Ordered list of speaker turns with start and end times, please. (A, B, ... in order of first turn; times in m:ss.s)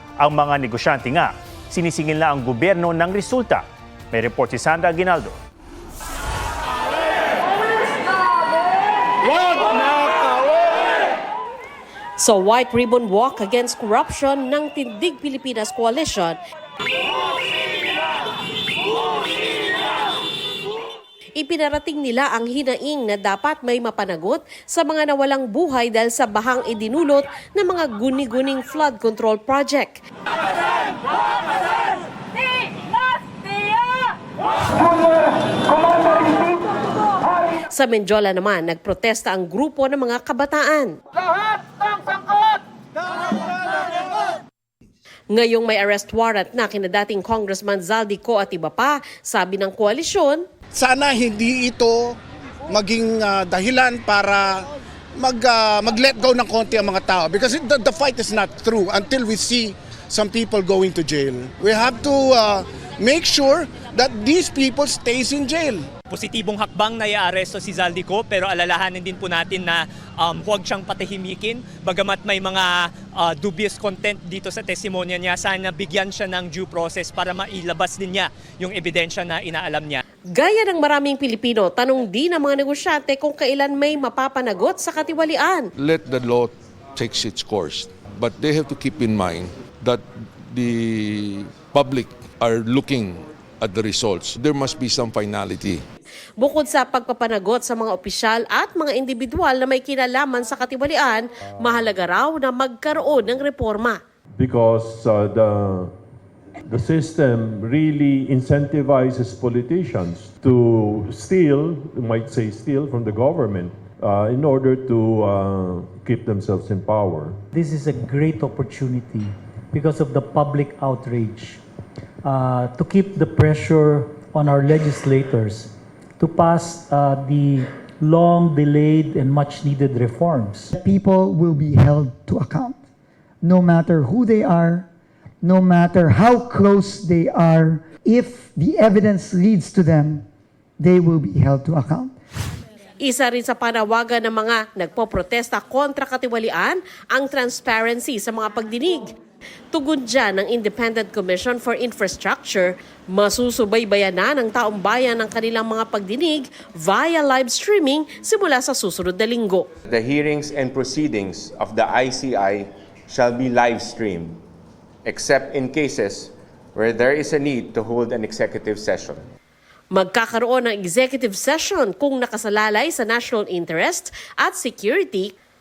0:00.2-0:05.3 A
0:12.2-0:16.4 B
0:21.4-0:30.0 B
0:37.7-0:41.0 B
0:45.3-0:50.4 B
0:50.7-0:52.2 C
0:52.7-1:05.8 C
1:06.1-1:20.0 D
1:20.3-1:25.7 B
1:25.8-1:35.8 E
1:36.4-1:44.0 B
1:44.4-1:45.9 F
1:46.7-1:57.4 F
1:57.5-2:01.6 G
2:02.2-2:10.7 G
2:10.7-2:12.8 H
2:13.4-2:14.9 H
2:15.4-2:20.2 H
2:20.8-2:22.1 H
2:23.0-2:29.1 B
2:29.7-2:39.7 B
2:39.8-2:44.4 I
2:45.0-2:49.3 I
2:49.9-2:55.3 B